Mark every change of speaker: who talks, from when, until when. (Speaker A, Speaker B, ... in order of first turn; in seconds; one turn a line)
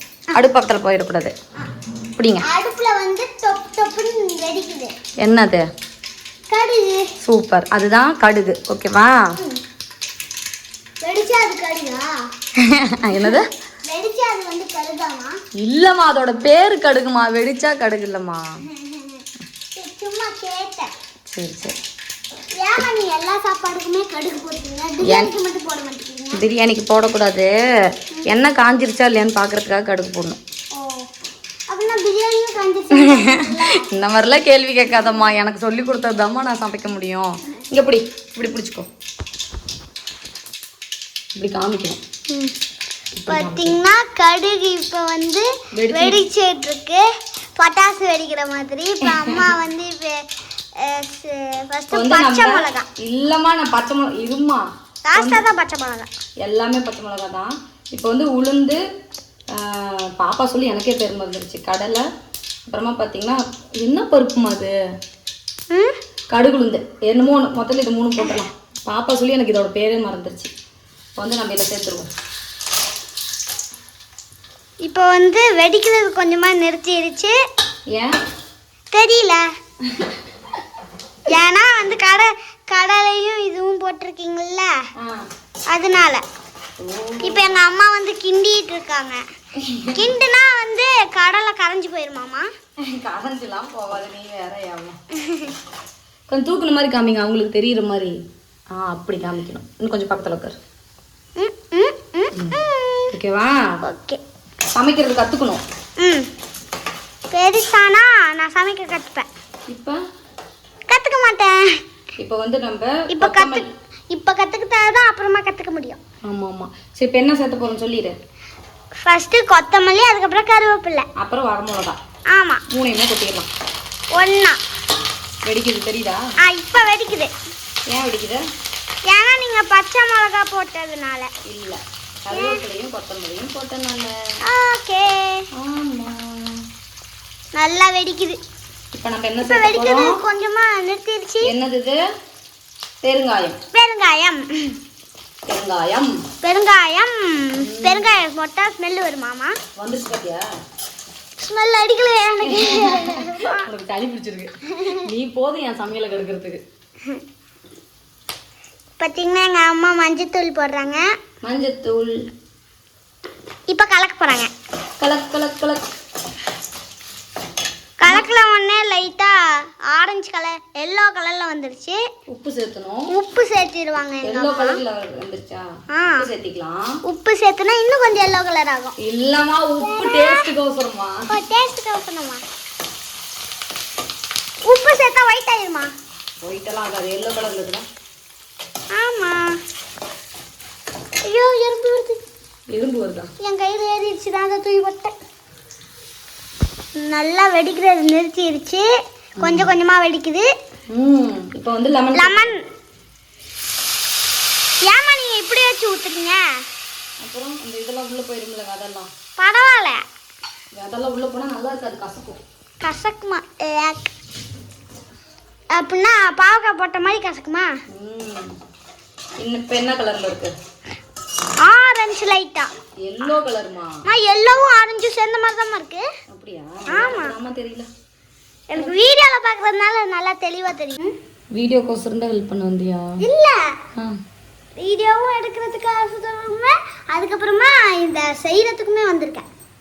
Speaker A: 0.3-1.4
Speaker A: 2.1-2.4
Speaker B: 2.4-4.9
Speaker A: 5.2-5.7
Speaker B: 6.5-7.1
Speaker A: 7.2-9.3
Speaker B: 11.0-12.1
Speaker A: 12.6-13.5
Speaker B: 13.1-15.4
Speaker A: 15.6-18.4
Speaker B: 18.7-19.2
Speaker B: 19.7-20.9
Speaker A: 21.3-21.8
Speaker B: 22.5-26.4
Speaker A: 25.0-25.3
Speaker A: 26.3-27.5
Speaker A: 28.2-30.4
Speaker B: 30.7-31.1
Speaker B: 31.7-33.9
Speaker A: 32.9-38.9
Speaker A: 41.4-42.0
Speaker A: 43.2-43.7
Speaker B: 43.3-50.2
Speaker A: 45.7-46.2
Speaker A: 49.1-49.5
Speaker B: 50.8-52.9
Speaker A: 51.9-55.4
Speaker B: 55.0-56.1
Speaker A: 56.4-58.8
Speaker A: 59.5-62.1
Speaker A: 62.7-64.7
Speaker B: 65.7-66.0
Speaker A: 66.3-70.5
Speaker A: 71.2-72.1
Speaker B: 74.8-77.3
Speaker A: 77.9-78.2
Speaker B: 78.9-79.5
Speaker A: 79.9-80.2
Speaker B: 81.3-84.8
Speaker A: 85.0-85.3
Speaker B: 85.7-86.2
Speaker A: 86.8-87.5
Speaker B: 87.2-89.2
Speaker A: 89.5-90.1
Speaker B: 89.9-92.5
Speaker A: 92.8-95.0
Speaker B: 95.1-95.5
Speaker A: 96.3-100.6
Speaker B: 101.4-103.1
Speaker A: 102.3-102.6
Speaker A: 103.1-103.8
Speaker B: 103.8-104.2
Speaker A: 104.7-105.6
Speaker B: 106.0-106.3
Speaker B: 107.3-109.3
Speaker A: 109.7-110.0
Speaker B: 110.9-111.8
Speaker A: 112.2-113.7
Speaker B: 113.1-116.0
Speaker A: 116.2-118.2
Speaker B: 119.0-121.1
Speaker A: 121.2-122.0
Speaker B: 122.3-122.6
Speaker A: 122.7-123.5
Speaker B: 124.1-124.6
Speaker A: 125.4-126.2
Speaker B: 126.4-127.3
Speaker A: 127.9-128.4
Speaker B: 129.1-131.3
Speaker A: 131.4-134.3
Speaker B: 132.3-132.6
Speaker B: 134.4-135.5
Speaker A: 135.5-136.7
Speaker B: 137.6-138.4
Speaker A: 138.9-140.2
Speaker B: 139.4-141.5
Speaker A: 141.4-142.0
Speaker A: 143.0-143.6
Speaker B: 143.7-144.8
Speaker A: 145.4-146.2
Speaker B: 146.4-149.6
Speaker A: 147.5-148.2
Speaker A: 149.8-150.4
Speaker B: 151.4-153.7
Speaker A: 152.4-156.6
Speaker B: 154.7-155.0
Speaker B: 159.0-161.1
Speaker A: 161.4-162.2
Speaker B: 163.7-164.5
Speaker A: 165.0-165.8
Speaker B: 168.0-172.0
Speaker A: 172.3-173.1
Speaker B: 173.1-174.8
Speaker A: 174.2-177.0
Speaker B: 175.9-176.3
Speaker B: 177.1-178.9
Speaker A: 179.0-181.3
Speaker B: 179.8-180.5
Speaker B: 181.3-182.4
Speaker B: 184.6-185.9
Speaker A: 186.4-187.8
Speaker B: 188.9-189.6
Speaker B: 191.2-192.2
Speaker A: 192.7-193.3
Speaker B: 193.4-195.1
Speaker B: 197.0-198.9
Speaker A: 199.4-199.7
Speaker B: 199.4-200.5
Speaker A: 200.9-202.4
Speaker B: 202.1-202.6
Speaker B: 204.8-206.6
Speaker A: 207.2-209.1
Speaker B: 209.4-210.0
Speaker A: 210.7-212.4
Speaker B: 212.8-214.1
Speaker B: 215.7-217.7
Speaker A: 217.9-218.6
Speaker A: 219.4-220.5
Speaker B: 221.6-222.7
Speaker A: 223.0-224.0
Speaker B: 224.0-226.1
Speaker A: 226.3-227.9
Speaker B: 226.9-227.3
Speaker B: 228.7-231.1
Speaker A: 231.5-233.1
Speaker B: 233.2-233.7
Speaker B: 234.8-239.4